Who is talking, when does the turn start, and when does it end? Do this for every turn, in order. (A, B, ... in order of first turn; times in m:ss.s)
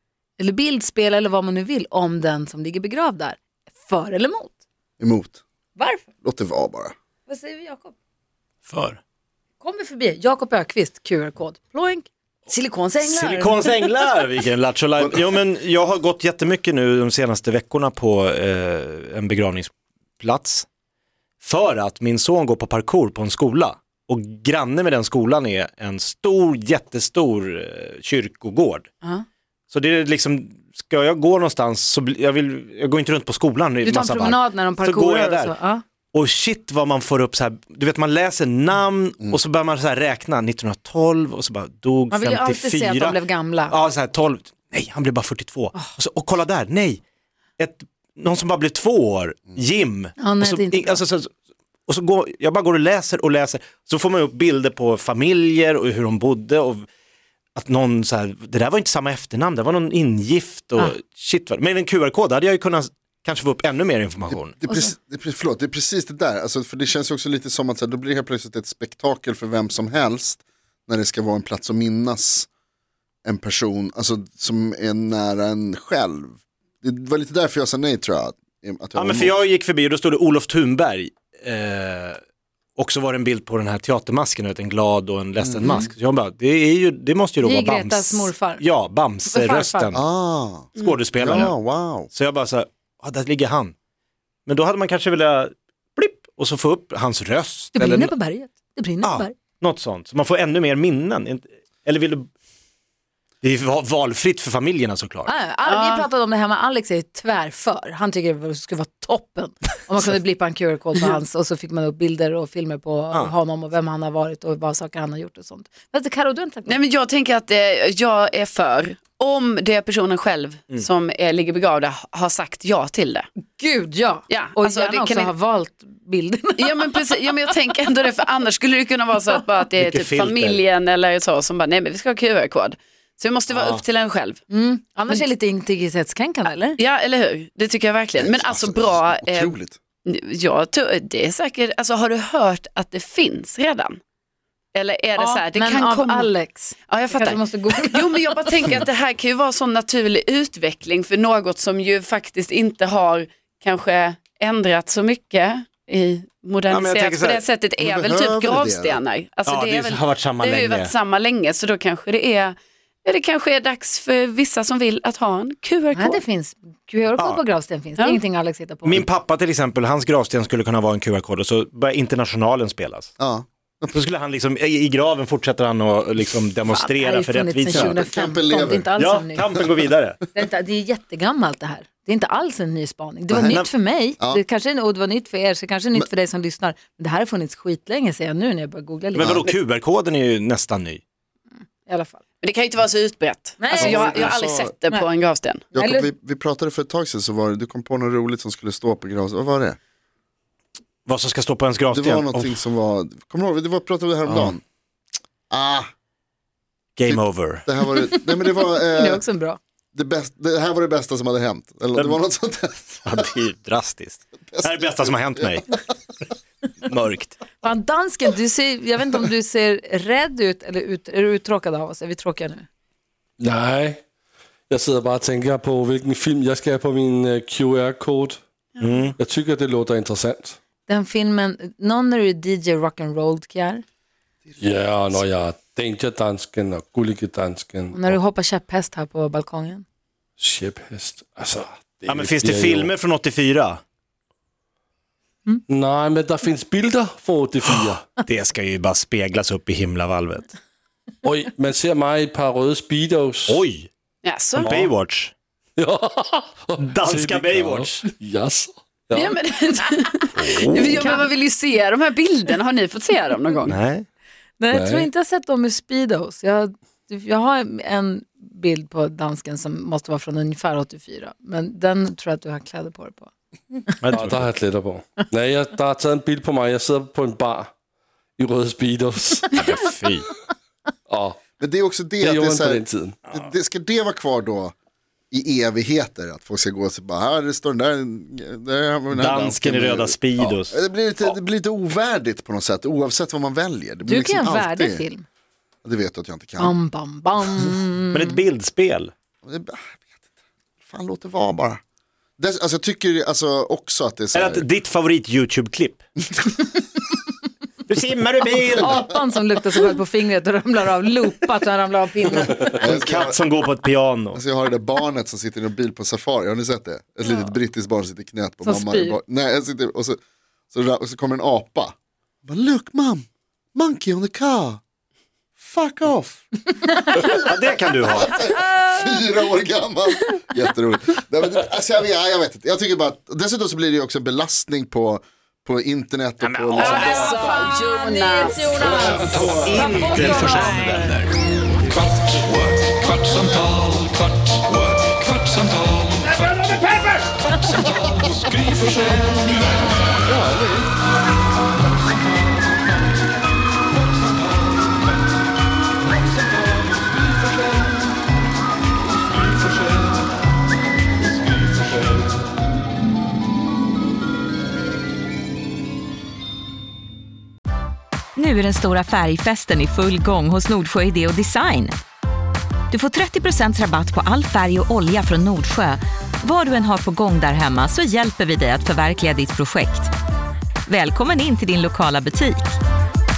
0:00.4-0:04.6 A
0:05.0-0:05.4 B
0:05.8-0:06.1 A
0:06.2-0:06.9 B
0:07.3-0:08.0 A
0:08.7-0:09.0 C
0:09.6-0:13.7 A
0:13.0-0:20.7 C
0:21.4-0:28.9 C
0:29.7-0:35.6 C
0:33.8-0:35.8 A
0:36.1-0:47.0 C
0:42.1-0:43.8 A
0:47.6-0:51.3 C
0:50.2-0:51.0 A
0:51.9-0:56.9 C
0:57.6-1:04.6 C
1:04.3-1:12.5 B
1:04.7-1:04.9 A
1:13.2-1:19.4 B
1:19.0-1:22.2 C
1:22.8-1:30.0 C
1:25.4-1:25.7 B
1:27.4-1:28.6 A
1:29.3-1:30.0 A
1:29.9-1:32.1 B
1:30.8-1:33.7 C
1:34.5-1:38.1 C
1:37.8-1:39.3 A
1:39.0-1:42.3 C
1:43.4-1:45.4 C
1:45.3-1:56.8 A
1:45.6-1:46.1 D
1:56.7-2:03.3 D
2:03.6-2:06.9 A
2:04.3-2:05.3 D
2:06.6-2:14.4 D
2:09.8-2:10.6 C
2:13.5-2:13.8 C
2:14.5-2:16.8 A
2:16.8-2:24.0 D
2:18.2-2:19.8 B
2:24.7-2:26.3 D
2:25.2-2:28.7 A
2:26.9-2:46.2 D
2:36.7-2:37.4 C
2:37.8-2:39.0 B
2:39.4-2:40.9 C
2:46.0-2:49.1 A
2:47.2-2:47.4 C
2:48.8-2:53.1 C
2:53.2-2:54.0 B
2:53.9-2:58.0 C
2:56.7-2:59.5 A
2:57.7-2:58.9 B
2:59.0-3:00.2 C
3:00.3-3:09.4 A
3:03.3-3:03.6 B
3:03.5-3:03.7 C
3:09.1-3:11.0 C
3:09.2-3:09.4 B
3:11.9-3:12.2 A
3:12.4-3:15.7 D
3:13.6-3:15.1 A
3:13.7-3:14.5 B
3:15.7-3:19.8 B
3:15.8-3:16.1 A
3:21.1-3:22.6 C
3:21.9-3:24.6 B
3:24.3-3:24.6 C
3:25.5-3:25.9 B
3:27.0-3:27.7 C
3:27.0-3:29.2 B
3:28.5-3:29.6 A
3:29.9-3:33.0 B
3:32.0-3:32.2 C
3:33.0-3:35.8 C
3:34.5-3:35.6 B
3:36.8-3:37.4 C
3:37.6-3:42.7 A
3:43.4-3:44.0 E
3:44.7-3:48.4 E
3:48.8-3:49.1 D
3:48.8-3:49.2 C
3:49.2-3:50.6 E
3:50.9-3:53.8 A
3:54.5-3:55.2 B
3:54.6-3:58.2 E
3:57.9-3:59.8 A
4:00.4-4:02.9 E
4:02.1-4:03.8 C
4:05.7-4:08.1 E
4:08.2-4:10.5 C
4:11.2-4:13.6 E
4:13.5-4:13.9 C
4:14.2-4:14.9 D
4:14.6-4:15.3 C
4:15.8-4:19.4 E
4:16.8-4:18.1 C
4:19.1-4:23.8 D
4:20.4-4:21.0 C
4:20.9-4:21.2 A
4:23.7-4:24.1 C
4:24.6-4:33.3 A
4:24.7-4:25.1 E
4:34.0-4:34.5 C
4:34.1-4:37.7 E
4:38.4-4:39.6 E
4:39.5-4:40.3 C
4:41.1-4:41.4 E
4:41.6-4:44.7 B
4:42.2-4:43.2 E
4:45.3-4:55.0 B
4:49.1-4:51.4 C
4:54.1-4:55.3 A
4:55.8-4:56.8 B
4:56.6-4:58.4 A
4:58.1-4:59.1 C
4:59.4-5:00.0 B
5:00.8-5:01.8 B
5:02.4-5:04.6 B
5:04.3-5:06.0 C
5:07.9-5:09.0 C
5:08.8-5:12.7 A
5:12.3-5:13.4 B
5:12.8-5:14.4 C
5:14.3-5:20.2 B
5:18.6-5:19.2 A
5:20.7-5:24.8 B
5:25.6-5:26.5 B
5:27.3-5:28.4 C
5:28.1-5:37.4 B
5:36.4-5:36.9 C
5:36.8-5:39.6 D
5:36.8-5:40.8 A
5:38.9-5:41.2 C
5:40.0-5:41.3 F
5:42.5-5:43.7 F
5:44.7-5:45.2 F
6:08.4-6:12.0 G
6:12.9-6:20.1 G
6:20.9-6:22.7 G